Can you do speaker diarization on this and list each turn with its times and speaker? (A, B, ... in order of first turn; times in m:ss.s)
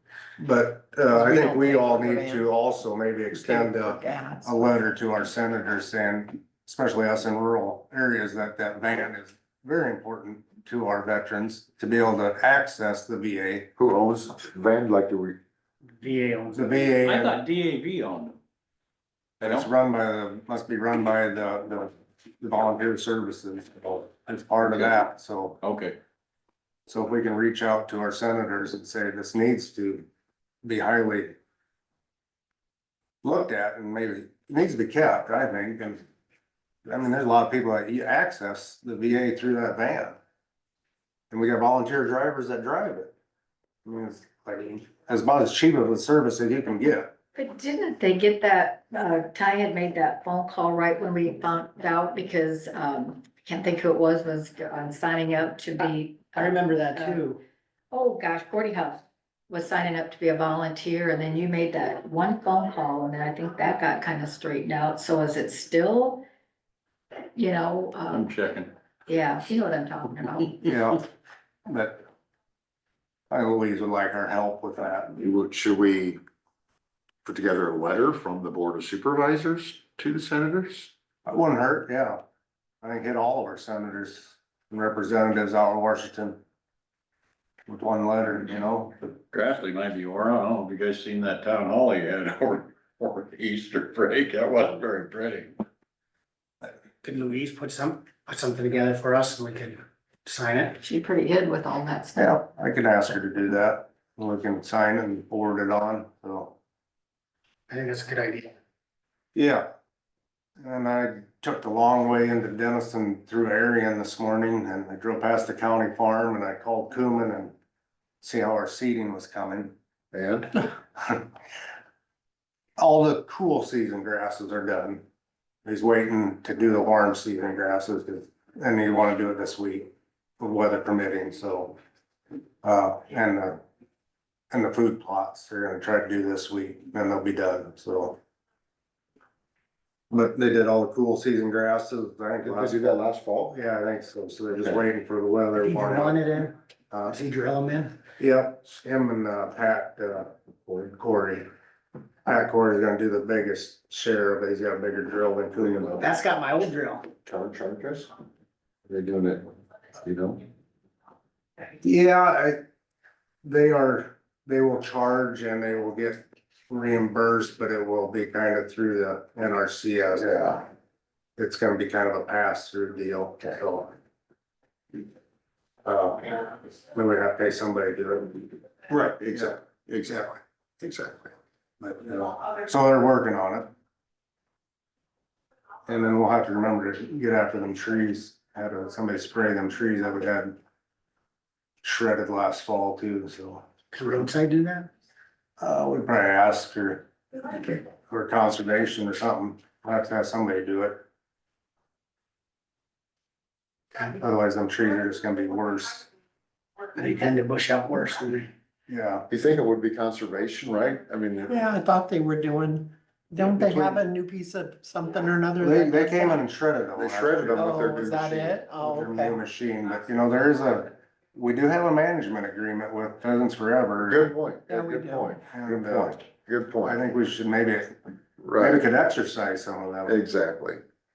0:00.4-0:13.7 A
0:01.1-0:02.5 B
0:03.4-0:04.7 B
0:13.8-0:15.4 C
0:16.0-0:16.8 D
0:16.5-0:17.4 A
0:17.0-0:18.4 E
0:19.4-0:25.6 A
0:25.6-0:26.0 E
0:26.9-0:30.1 A
0:30.6-0:31.4 A
0:33.2-0:36.0 A
0:36.9-0:40.2 A
0:41.3-0:43.1 A
0:43.8-0:47.1 A
0:47.4-0:57.3 F
0:56.4-0:57.4 D
0:57.9-1:06.2 F
1:07.4-1:08.3 F
1:08.1-1:08.7 E
1:09.1-1:10.7 F
1:10.6-1:11.0 A
1:11.7-1:12.0 A
1:13.3-1:15.2 A
1:15.2-1:16.2 C
1:17.2-1:20.9 C
1:21.3-1:22.2 A
1:22.8-1:26.4 A
1:27.7-1:29.1 A
1:29.3-1:35.5 E
1:37.0-1:40.8 D
1:40.8-1:42.4 F
1:42.2-1:46.6 A
1:47.7-1:48.5 D
1:49.4-1:49.7 A
1:50.6-1:57.6 A
1:58.2-1:59.8 A
2:00.1-2:00.5 C
2:01.0-2:01.3 A
2:02.8-2:05.0 A
2:05.6-2:11.8 A
2:12.6-2:13.6 A
2:14.5-2:18.2 A
2:20.1-2:23.0 A
2:22.4-2:23.6 C
2:23.5-2:26.3 A
2:25.6-2:26.5 D
2:26.9-2:27.2 A
2:27.1-2:28.0 D
2:28.2-2:31.5 A
2:32.2-2:36.1 A
2:35.6-2:36.1 C
2:36.0-2:37.1 D
2:37.2-2:38.1 C
2:38.9-2:40.4 C
2:41.8-2:42.6 A
2:43.4-2:50.7 A
2:50.2-2:50.6 C
2:51.4-2:54.0 A
2:55.8-2:59.6 A
2:59.2-3:01.3 C
3:01.8-3:03.7 A
3:05.9-3:10.6 A
3:11.8-3:13.6 A
3:13.9-3:14.9 D
3:15.6-3:21.0 A
3:24.0-3:26.1 A
3:27.0-3:28.5 D
3:28.9-3:29.3 A
3:29.3-3:31.6 C
3:31.5-3:36.4 B
3:33.4-3:34.0 A
3:35.6-3:37.7 A
3:37.0-3:38.6 C
3:37.5-3:39.4 B
3:38.8-3:44.3 A
3:44.0-3:47.1 C
3:44.7-3:45.4 B
3:45.4-3:46.2 A
3:46.8-3:47.9 A
3:48.4-3:48.8 C
3:48.6-3:50.2 A
3:50.1-3:50.8 C